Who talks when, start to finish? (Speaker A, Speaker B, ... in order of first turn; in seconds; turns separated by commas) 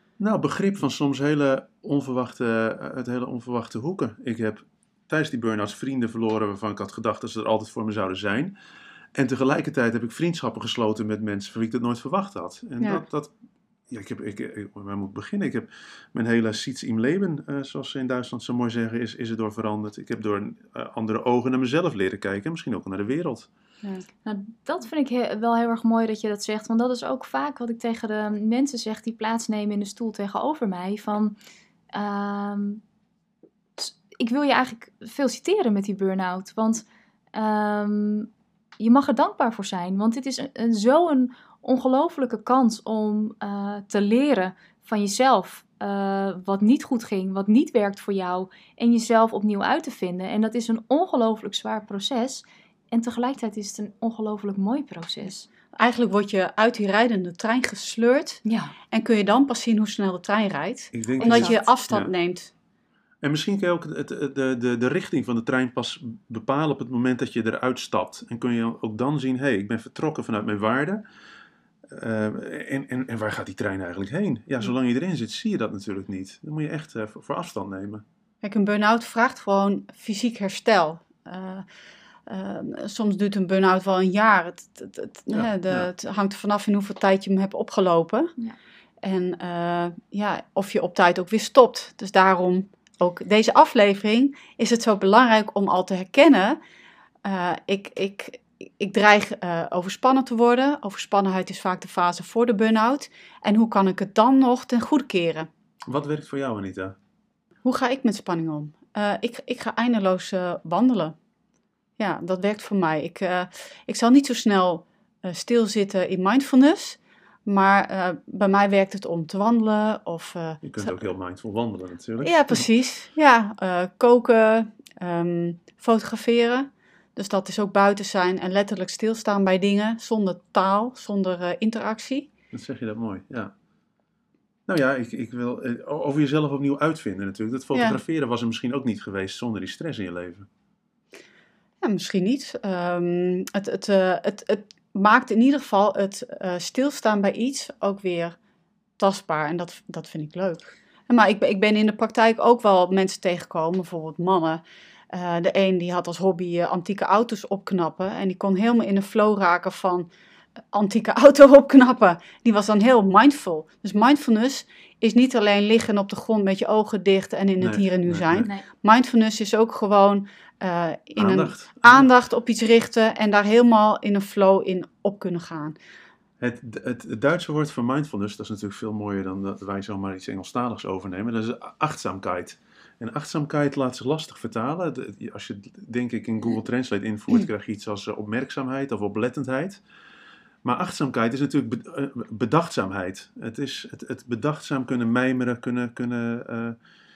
Speaker A: 0.2-8.5, Speaker A: 9.1-13.3, Speaker A: 13.9-23.5, Speaker B: 24.2-31.4, Speaker B: 31.9-32.8, Speaker B: 33.8-38.3, Speaker B: 38.8-55.5, Speaker C: 55.7-62.5, Speaker B: 58.5-58.7, Speaker A: 60.9-62.1, Speaker B: 61.2-61.6, Speaker A: 63.2-71.0, Speaker A: 71.9-78.0, Speaker C: 78.4-81.7, Speaker C: 82.3-88.3, Speaker A: 85.3-85.9, Speaker C: 89.0-96.6, Speaker C: 97.2-105.5, Speaker A: 105.9-106.9, Speaker C: 107.6-111.2, Speaker C: 112.0-120.9, Speaker A: 120.6-122.6, Speaker C: 122.2-132.3, Speaker A: 132.5-133.5, Speaker A: 134.7-140.5, Speaker C: 141.8-148.4, Speaker C: 149.0-160.1, Speaker C: 160.7-175.8, Speaker A: 167.6-168.5, Speaker A: 171.2-172.1, Speaker A: 176.4-189.8, Speaker A: 190.6-196.8